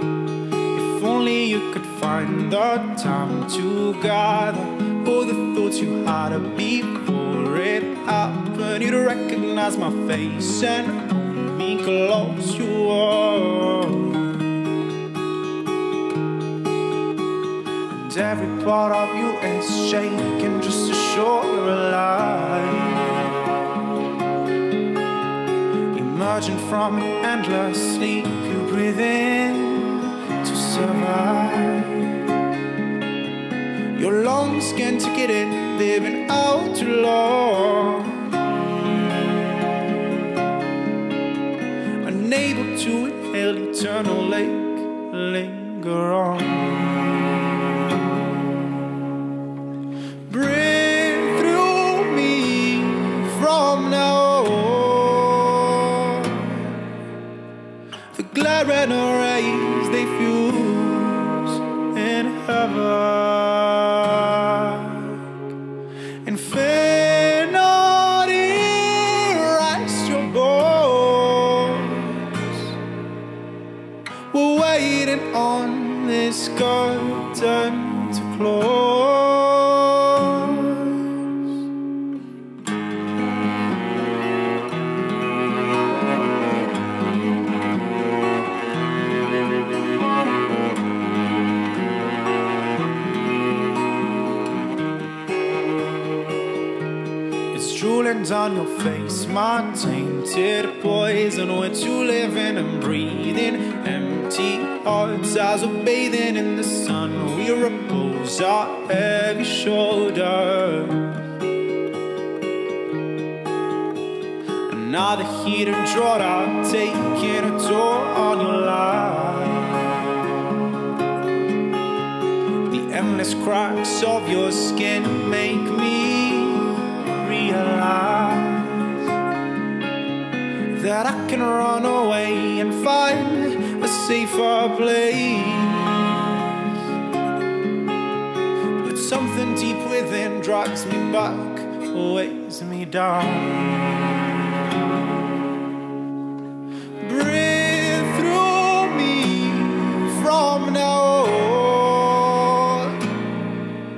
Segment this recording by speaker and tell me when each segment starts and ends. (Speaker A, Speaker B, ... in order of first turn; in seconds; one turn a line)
Speaker A: 0.7-14.3
Speaker A: 17.9-23.1
Speaker A: 25.9-32.1
Speaker A: 33.9-38.3
Speaker A: 42.0-47.1
Speaker A: 50.3-56.8
Speaker A: 58.1-65.2
Speaker A: 66.2-72.7
Speaker A: 74.3-81.0
Speaker A: 97.5-111.2
Speaker A: 114.7-119.9
Speaker A: 122.7-128.9
Speaker A: 130.7-136.2
Speaker A: 138.8-143.8
Speaker A: 147.0-153.0